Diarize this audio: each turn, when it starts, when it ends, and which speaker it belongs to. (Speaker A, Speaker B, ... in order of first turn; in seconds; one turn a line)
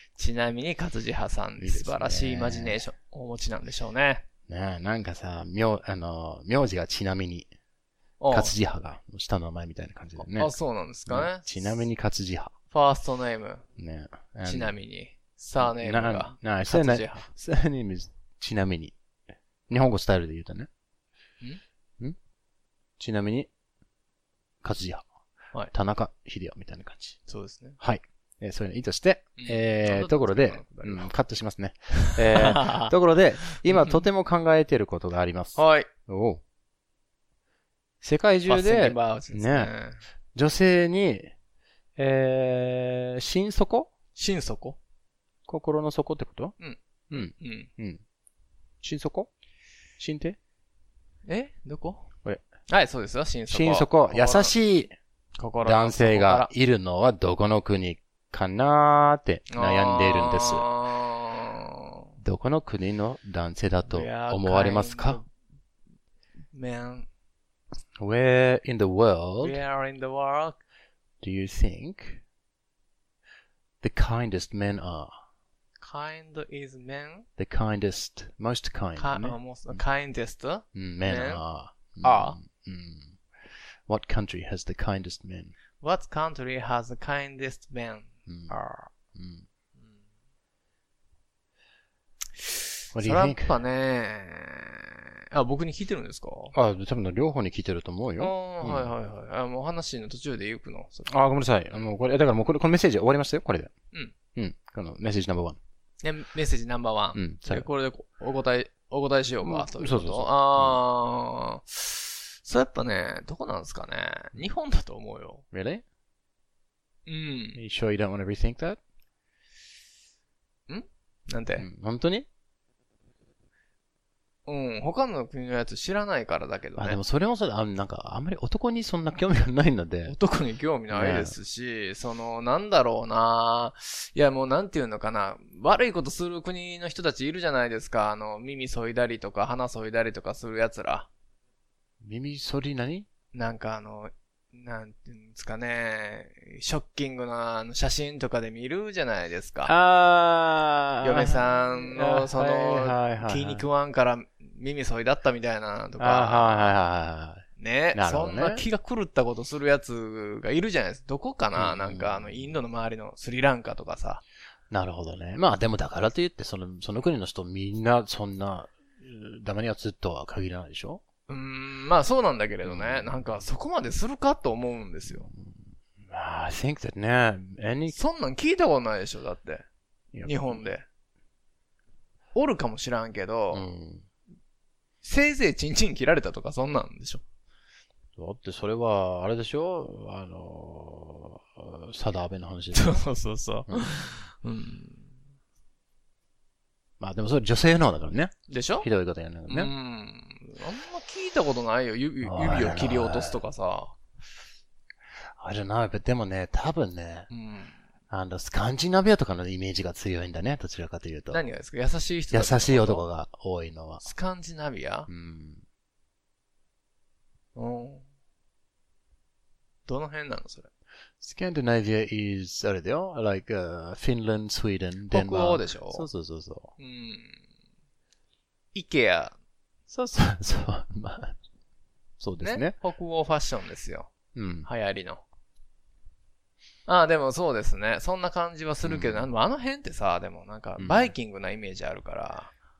Speaker A: 0.2-4.2
Speaker B: 1.6-2.8
Speaker B: 4.5-7.5
Speaker A: 8.2-8.5
Speaker B: 8.3-10.5
Speaker A: 10.2-11.8
Speaker B: 11.1-12.5
Speaker A: 12.7-13.6
Speaker B: 13.8-14.7
Speaker A: 14.4-17.3
Speaker B: 15.6-18.9
Speaker B: 19.7-20.7
Speaker B: 23.0-23.5
Speaker B: 24.6-25.0
Speaker B: 25.7-27.2
Speaker A: 27.3-27.8
Speaker B: 27.8-36.4
Speaker A: 29.4-31.1
Speaker A: 32.0-32.9
Speaker A: 33.6-34.0
Speaker A: 35.5-35.9
Speaker B: 38.0-39.7
Speaker A: 38.5-40.0
Speaker B: 40.3-41.3
Speaker B: 42.0-43.9
Speaker A: 44.1-44.8
Speaker B: 45.5-46.5
Speaker A: 46.6-47.7
Speaker B: 47.1-48.0
Speaker B: 48.8-49.3
Speaker B: 50.0-50.4
Speaker A: 51.3-52.0
Speaker A: 52.7-54.5
Speaker B: 53.5-54.9
Speaker A: 55.4-56.5
Speaker B: 55.6-60.6
Speaker A: 59.5-61.9
Speaker B: 62.2-65.2
Speaker A: 63.9-65.3
Speaker A: 66.5-67.1
Speaker B: 68.0-69.6
Speaker A: 69.4-70.6
Speaker B: 71.2-72.2
Speaker B: 73.8-75.1
Speaker A: 75.8-77.2
Speaker B: 77.4-79.8
Speaker A: 79.0-81.4
Speaker B: 80.7-83.2
Speaker A: 82.0-82.4
Speaker B: 83.9-85.5
Speaker A: 85.8-88.9
Speaker B: 88.3-88.5
Speaker B: 89.1-89.5
Speaker A: 92.5-96.5
Speaker B: 92.9-93.5
Speaker B: 96.5-98.9
Speaker A: 98.2-101.1
Speaker B: 101.1-103.7
Speaker B: 104.3-105.6
Speaker A: 106.0-115.4
Speaker B: 107.1-107.7
Speaker B: 109.4-110.8
Speaker B: 115.5-115.8
Speaker A: 117.1-117.6
Speaker B: 117.5-118.8
Speaker A: 120.7-121.7
Speaker B: 121.6-122.2
Speaker A: 124.5-127.0
Speaker B: 126.8-130.1
Speaker A: 130.1-141.1
Speaker B: 130.9-131.3
Speaker B: 142.0-143.1
Speaker A: 143.3-149.7
Speaker B: 149.6-153.6
Speaker A: 151.0-156.7
Speaker B: 156.0-158.6
Speaker A: 157.6-164.2
Speaker B: 161.6-162.5
Speaker B: 164.7-171.0
Speaker A: 171.3-175.3
Speaker B: 172.6-173.4
Speaker B: 175.2-177.9
Speaker A: 177.9-179.6
Speaker B: 180.1-180.6
Speaker A: 180.2-180.8
Speaker A: 182.3-183.6
Speaker B: 183.5-184.1
Speaker A: 185.0-187.2
Speaker B: 188.2-193.0
Speaker A: 192.7-195.1
Speaker B: 197.0-199.7
Speaker A: 198.5-198.9
Speaker A: 199.5-203.9
Speaker B: 202.2-203.3
Speaker B: 205.4-207.3
Speaker A: 207.3-207.8
Speaker B: 208.1-211.4
Speaker A: 211.3-213.0
Speaker B: 212.3-214.1
Speaker A: 214.0-215.1
Speaker B: 215.1-215.6
Speaker A: 217.6-218.0
Speaker A: 219.8-220.7
Speaker B: 221.2-226.7
Speaker A: 225.1-226.1
Speaker A: 226.8-227.4
Speaker A: 228.7-229.3
Speaker B: 229.9-231.3
Speaker B: 232.2-232.7
Speaker A: 232.4-234.1
Speaker B: 234.3-234.7
Speaker A: 234.6-235.2
Speaker A: 236.8-242.5
Speaker B: 238.8-239.3
Speaker B: 240.8-241.1